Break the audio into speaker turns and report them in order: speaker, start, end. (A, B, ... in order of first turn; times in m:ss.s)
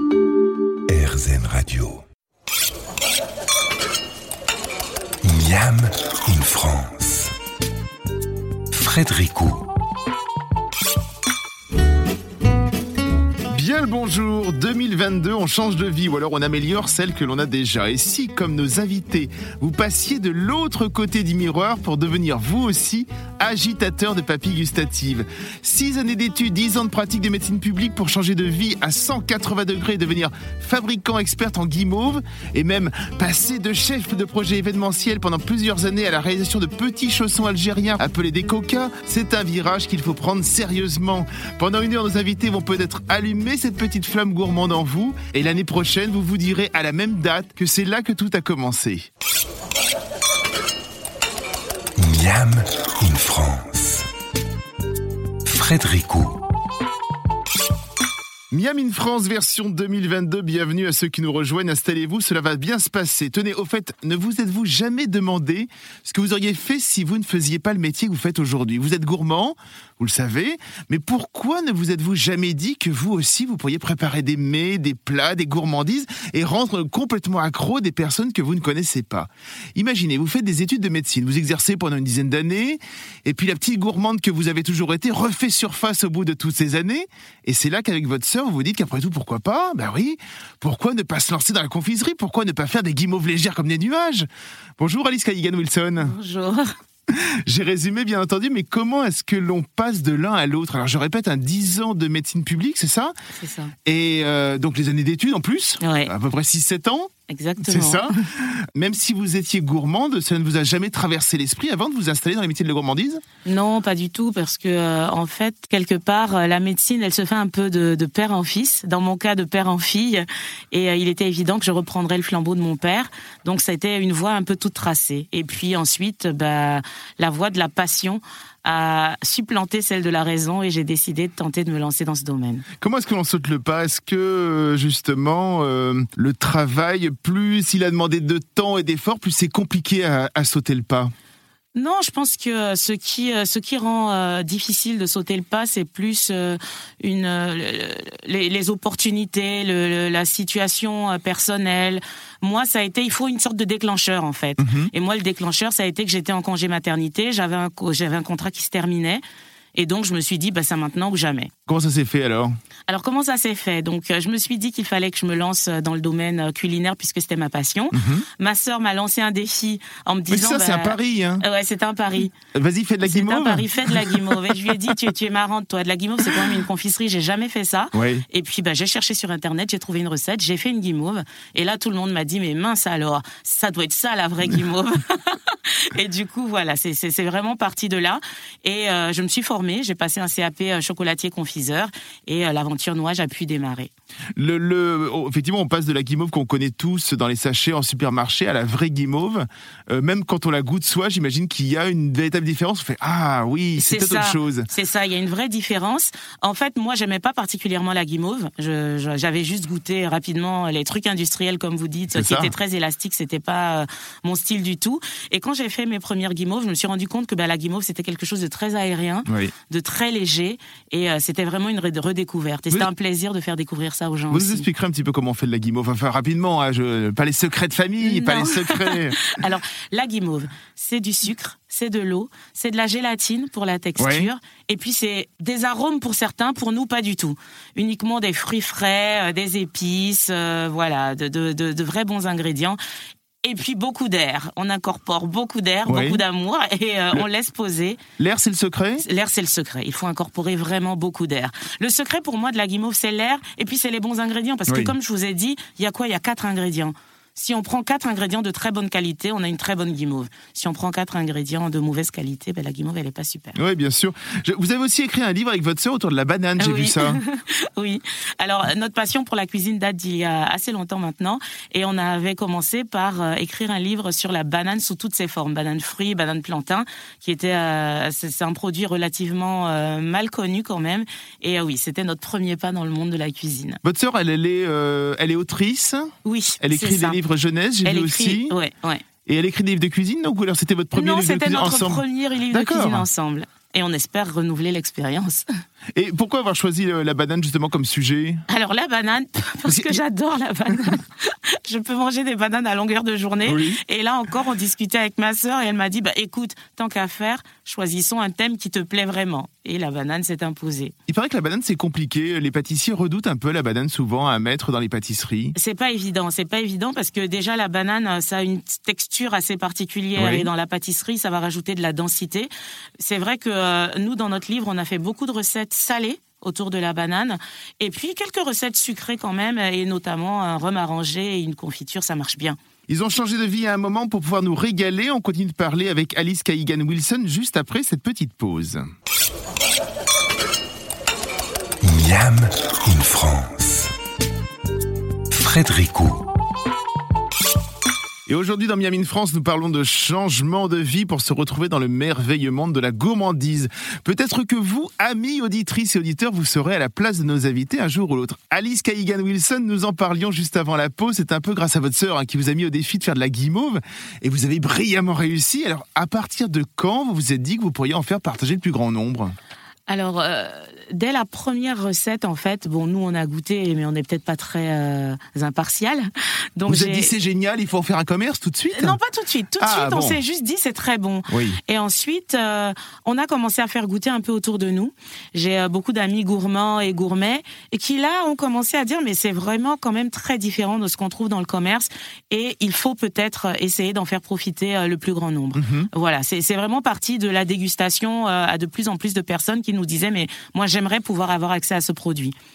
0:00.9-0:02.0 A
0:05.2-0:07.3 A
0:08.7-0:09.6 A
0:13.5-0:49.1 B
0:52.0-0:54.1 A
0:55.4-0:56.4 A
0:58.5-1:36.1 B
1:36.0-1:36.7 C
1:37.1-1:43.1 B
1:43.4-1:43.7 C
1:43.8-1:53.2 B
1:45.8-1:46.1 C
1:47.3-1:48.1 C
1:53.4-2:12.7 C
2:12.8-2:21.1 B
2:21.7-2:39.2 C
2:34.6-2:34.9 B
2:39.7-2:41.5 C
2:41.7-2:42.6 B
2:42.9-2:52.3 C
2:47.9-2:48.2 B
2:50.3-2:51.4 B
2:52.5-2:54.8 B
2:53.0-3:13.9 C
2:57.9-2:58.2 B
3:14.4-3:24.7 B
3:23.8-3:44.6 C
3:32.1-3:32.5 B
3:39.3-3:39.5 B
3:44.3-3:49.2 B
3:48.0-4:02.8 C
3:54.0-3:54.3 B
4:03.4-4:08.0 C
4:05.9-4:06.2 B
4:08.2-4:09.0 B
4:09.0-4:23.6 C
4:14.7-4:14.9 B
4:23.5-4:27.2 B
4:26.6-4:43.8 C
4:43.8-4:48.5 B
4:46.2-4:47.2 C
4:47.8-4:49.0 C
4:49.2-4:53.0 B
4:51.0-4:55.5 C
4:55.9-4:58.4 B
4:58.5-5:10.9 C
4:59.6-5:00.0 B
5:03.4-5:03.8 B
5:11.1-5:15.5 B
5:15.6-5:32.6 C
5:20.2-5:20.5 B
5:32.9-5:38.9 B
5:41.8-5:43.9 A
5:45.3-5:46.2 A
5:48.3-6:09.4 B
6:09.9-6:17.1 C
6:16.7-6:19.0 B
6:18.7-6:42.3 C
6:19.6-6:20.2 B
6:21.3-6:21.6 B
6:35.6-6:35.9 B